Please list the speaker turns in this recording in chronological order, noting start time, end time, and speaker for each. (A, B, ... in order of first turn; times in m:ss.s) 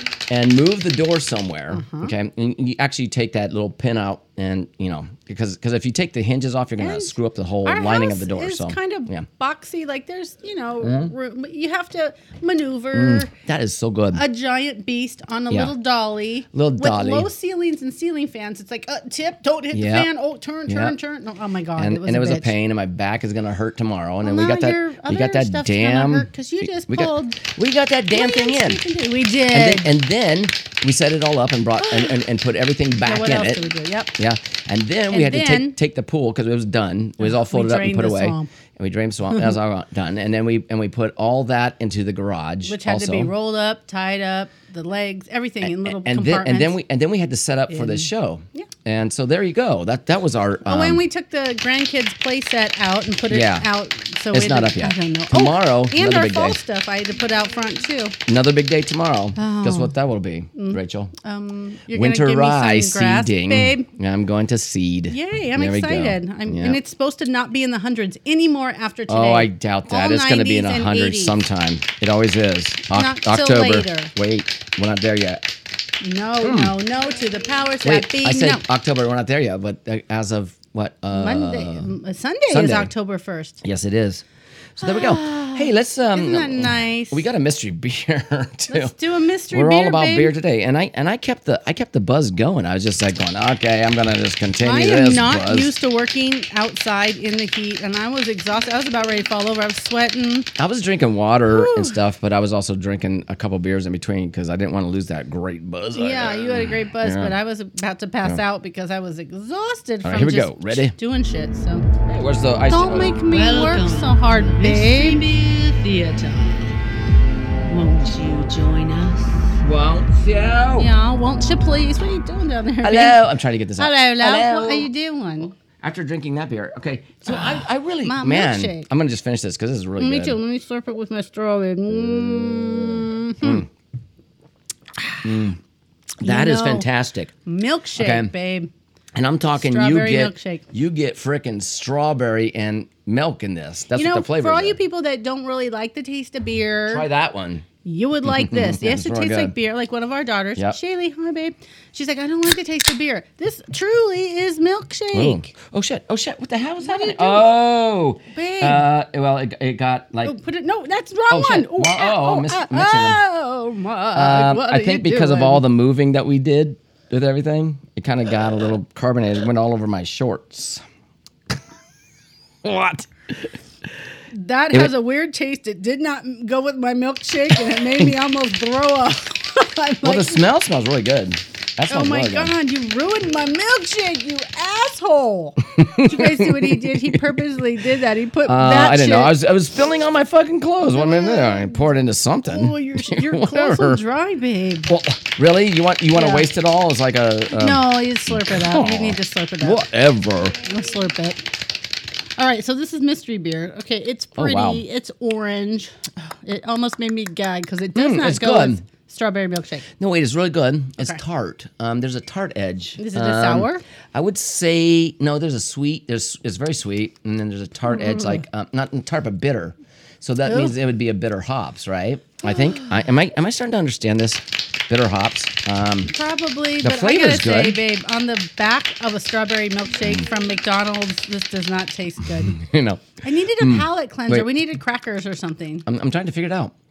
0:00.3-0:09.2 A
0:01.7-0:02.1 B
0:06.8-0:13.3 B
0:10.8-0:11.1 A
0:12.9-0:14.2 A
0:14.1-0:22.5 B
0:16.5-0:17.3 A
0:19.7-0:20.1 A
0:20.7-0:21.0 A
0:21.8-0:28.8 A
0:24.2-0:27.4 B
0:28.1-0:29.9 B
0:29.5-0:33.6 A
0:31.8-0:32.2 B
0:33.0-0:34.1 B
0:34.2-0:43.3 A
0:35.1-0:35.8 B
0:37.2-0:38.5 B
0:42.6-0:46.8 B
0:45.6-0:51.0 A
0:47.7-0:48.7 B
0:50.6-0:58.2 B
0:53.3-0:53.7 A
0:54.3-0:56.6 A
0:58.3-1:01.1 A
0:59.4-0:59.9 B
1:00.5-1:03.9 B
1:01.9-1:06.8 A
1:05.1-1:11.4 B
1:09.1-1:15.4 A
1:12.9-1:14.1 B
1:16.0-1:18.6 B
1:16.4-1:16.8 A
1:17.8-1:21.9 A
1:21.1-1:23.6 B
1:22.5-1:22.9 A
1:23.6-1:24.2 A
1:24.8-1:28.9 A
1:24.8-1:27.2 B
1:28.7-1:30.3 B
1:29.5-1:35.7 A
1:34.6-1:40.5 B
1:40.6-1:47.3 A
1:41.5-1:42.0 B
1:45.9-1:51.9 B
1:50.0-1:50.9 A
1:52.0-1:53.8 A
1:52.7-1:55.4 B
1:53.6-1:56.6 C
1:57.7-1:59.3 C
1:57.7-1:58.4 B
1:59.6-2:00.9 A
2:00.8-2:03.2 B
2:02.8-2:04.9 A
2:03.8-2:05.5 B
2:05.7-2:10.4 A
2:07.2-2:08.9 B
2:10.0-2:13.6 B
2:13.4-2:13.7 A
2:15.0-2:15.3 B
2:15.2-2:15.6 A
2:16.2-2:17.3 A
2:16.2-2:16.9 B
2:17.4-2:18.7 B
2:18.0-2:18.3 A
2:19.1-2:24.8 A
2:19.5-2:20.6 B
2:23.9-2:27.0 B
2:26.9-2:27.6 A
2:27.8-2:35.5 B
2:28.2-2:29.5 A
2:35.1-2:40.3 A
2:36.8-2:37.5 B
2:38.3-2:38.8 B
2:40.2-2:45.6 B
2:41.3-2:43.2 A
2:44.1-2:50.8 A
2:52.6-2:53.5 A
2:54.3-3:00.4 B
3:00.0-3:02.5 A
3:01.9-3:09.3 B
3:05.7-3:07.4 A
3:08.4-3:14.0 A
3:10.9-3:11.9 B
3:12.4-3:14.9 B
3:14.9-3:20.6 A
3:16.1-3:16.5 B
3:17.5-3:19.8 B
3:20.6-3:21.4 B
3:22.4-3:29.8 B
3:24.4-3:24.8 A
3:27.9-3:28.8 A
3:30.0-3:46.1 A
3:33.0-3:33.8 B
3:37.9-3:38.4 B
3:40.5-3:40.7 B
3:42.4-3:43.0 B
3:46.0-3:52.6 B
3:46.8-3:47.8 A
3:52.4-3:54.5 A
3:53.2-3:55.8 B
3:55.8-3:56.7 A